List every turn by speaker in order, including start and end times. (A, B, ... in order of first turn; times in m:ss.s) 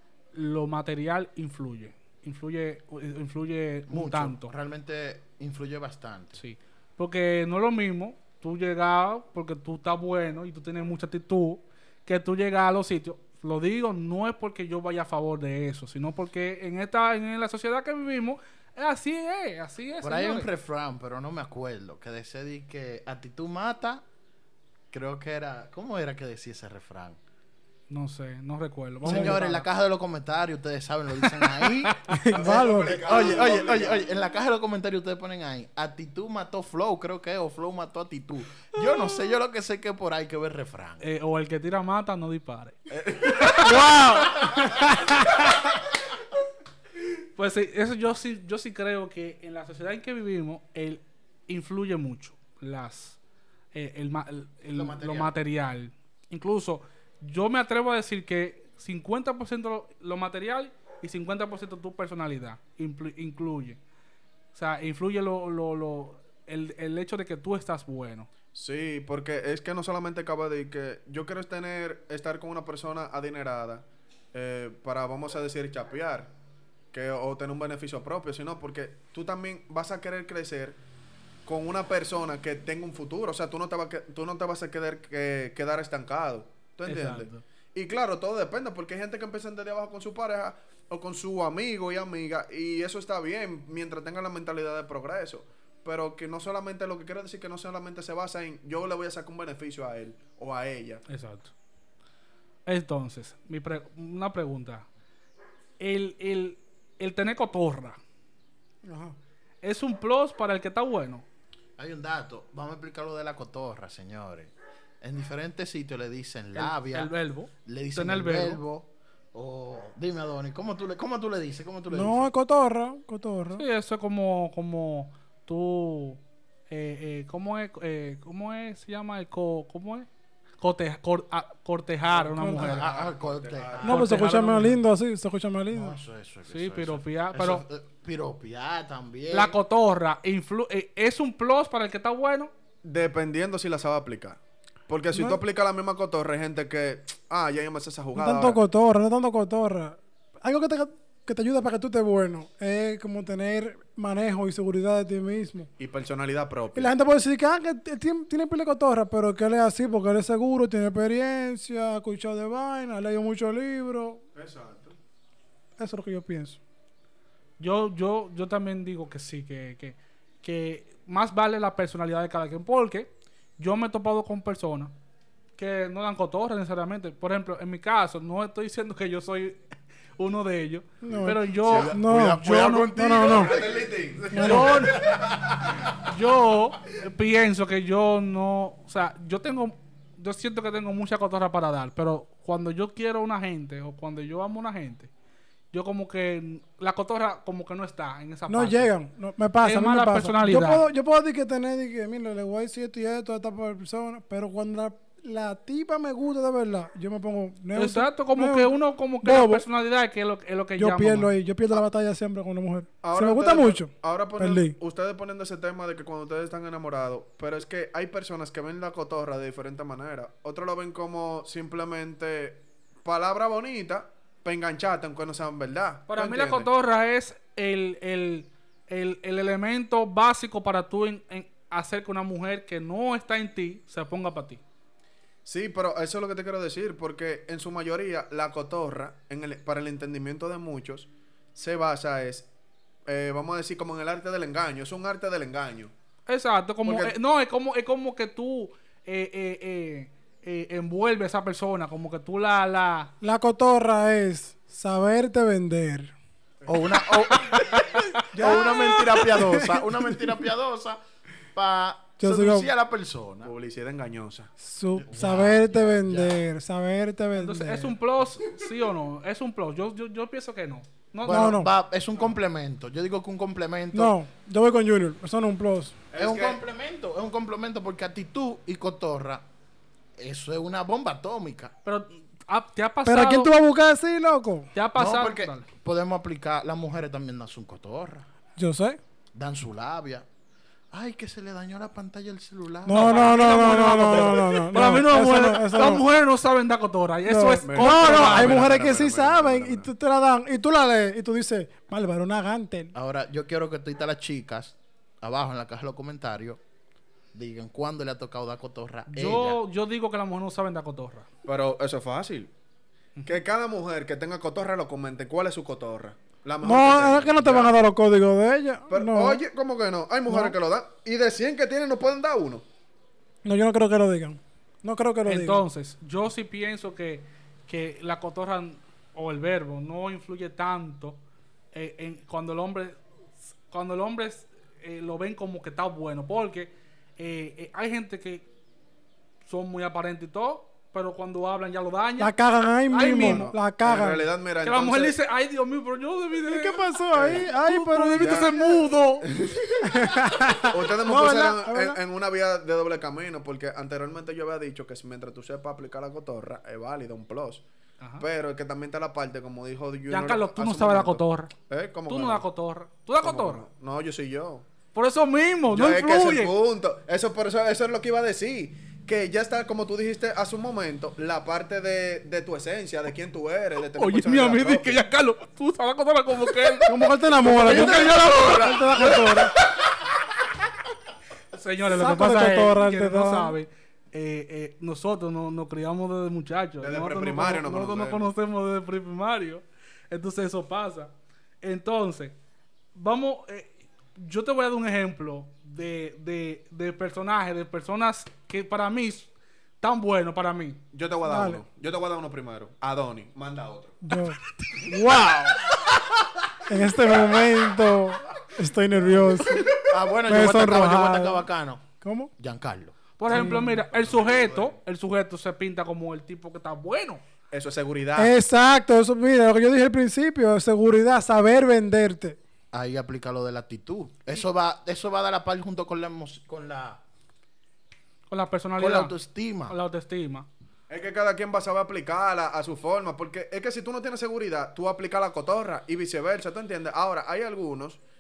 0:00.3-0:04.5 A
0:03.9-0:06.4 B
0:06.4-0:20.5 A
0:20.0-0:24.0 B
0:24.9-0:27.2 B
0:27.9-0:29.6 A
0:29.0-0:41.1 B
0:29.0-0:29.4 C
0:31.3-0:32.2 A
0:32.1-0:33.3 C
0:32.3-0:34.1 D
0:41.0-0:45.6 A
0:43.2-0:43.5 D
0:43.4-0:43.8 B
0:47.4-0:53.2 A
0:53.7-1:03.8 A
0:54.7-0:55.4 B
1:04.5-1:08.3 A
1:08.6-1:16.3 D
1:16.9-1:20.8 D
1:21.5-1:41.0 D
1:26.9-1:27.4 A
1:41.1-1:41.5 A
1:42.7-1:44.9 A
1:45.8-1:48.0 A
1:48.8-1:49.2 C
1:49.6-1:51.2 A
1:51.8-1:57.1 B
1:56.6-1:58.6 A
1:57.6-2:02.3 B
2:01.9-2:03.6 C
2:03.6-2:10.1 A
2:10.6-2:12.9 A
2:12.4-2:12.8 C
2:12.5-2:14.2 B
2:12.6-2:14.0 D
2:13.8-2:16.0 C
2:13.8-2:14.8 A
2:15.7-2:19.6 B
2:16.5-2:17.6 A
2:19.3-2:22.5 A
2:22.8-2:28.6 D
2:25.1-2:25.4 C
2:28.2-2:35.7 C
2:35.8-2:36.9 D
2:36.8-2:44.2 C
2:44.4-2:45.0 D
2:45.8-2:46.6 C
2:47.6-2:54.9 A
2:55.6-2:59.6 A
3:00.2-3:03.0 A
3:01.0-3:03.6 C
3:01.6-3:05.8 B
3:01.6-3:01.9 D
3:03.3-3:05.4 D
3:04.3-3:04.8 C
3:04.4-3:05.0 A
3:06.0-3:15.1 A
3:15.7-3:18.9 A
3:18.5-3:29.6 C
3:19.6-3:20.8 A
3:27.8-3:31.3 A
3:30.8-3:34.8 C
3:33.0-3:46.7 D
3:46.1-3:54.6 A
3:55.4-4:02.5 D
4:03.1-4:05.9 D
4:06.3-4:13.1 A
4:06.8-4:07.1 D
4:13.2-4:16.1 C
4:16.6-4:16.9 D
4:16.7-4:17.8 B
4:17.5-4:18.9 A
4:18.3-4:20.1 C
4:18.3-4:21.0 B
4:21.5-4:23.5 B
4:22.2-4:22.7 C
4:23.4-4:24.5 D
4:24.6-4:27.9 C
4:25.0-4:26.5 B
4:27.4-4:31.6 A
4:31.2-4:34.2 B
4:31.3-4:31.7 C
4:33.9-4:36.0 C
4:36.1-4:36.6 D
4:36.2-4:39.4 B
4:40.2-4:41.7 B
4:41.8-4:43.5 A
4:43.1-4:44.7 C
4:44.7-4:45.7 A
4:45.0-4:48.3 B
4:48.6-4:49.0 C
4:49.3-4:50.3 B
4:50.9-4:54.5 B
4:52.9-4:56.0 C
4:52.9-4:58.6 A
4:57.3-5:02.9 C
4:57.6-4:59.9 D
5:02.9-5:06.6 B
5:07.3-5:09.6 B
5:09.1-5:11.3 A
5:11.5-5:12.5 D
5:13.2-5:17.7 D
5:16.6-5:19.4 C
5:18.9-5:22.6 D
5:20.3-5:20.6 C
5:23.4-5:25.6 C
5:25.2-5:31.2 A
5:31.7-5:38.5 A
5:39.5-5:42.3 A
5:42.2-5:44.2 C
5:42.9-5:43.5 A
5:43.0-5:45.2 D
5:44.6-5:49.3 A
5:46.5-5:48.6 C
5:47.1-5:47.5 D
5:48.2-5:50.1 D
5:49.8-5:52.0 C
5:50.6-5:57.6 D
5:58.2-6:02.4 D
6:00.1-6:01.5 A
6:02.1-6:03.6 A
6:03.2-6:04.7 D
6:05.0-6:06.5 A
6:05.7-6:15.0 D
6:14.0-6:19.5 A
6:16.9-6:19.5 C
6:17.4-6:19.4 D
6:21.5-6:32.4 A
6:21.9-6:23.6 C
6:26.8-6:28.3 D
6:33.0-6:40.8 A
6:40.9-6:44.0 D
6:41.2-6:41.6 C
6:44.0-6:45.6 C
6:46.7-6:51.5 C
6:49.8-6:51.9 B
6:52.0-6:52.3 C
6:52.4-6:53.0 B
6:53.2-6:57.2 A
6:53.3-6:53.8 C
6:53.3-6:54.8 D
6:57.5-6:58.3 D
6:58.2-7:02.4 C
7:02.7-7:07.0 B
7:08.3-7:09.2 A
7:08.8-7:09.8 B
7:09.7-7:10.5 A
7:10.9-7:18.0 D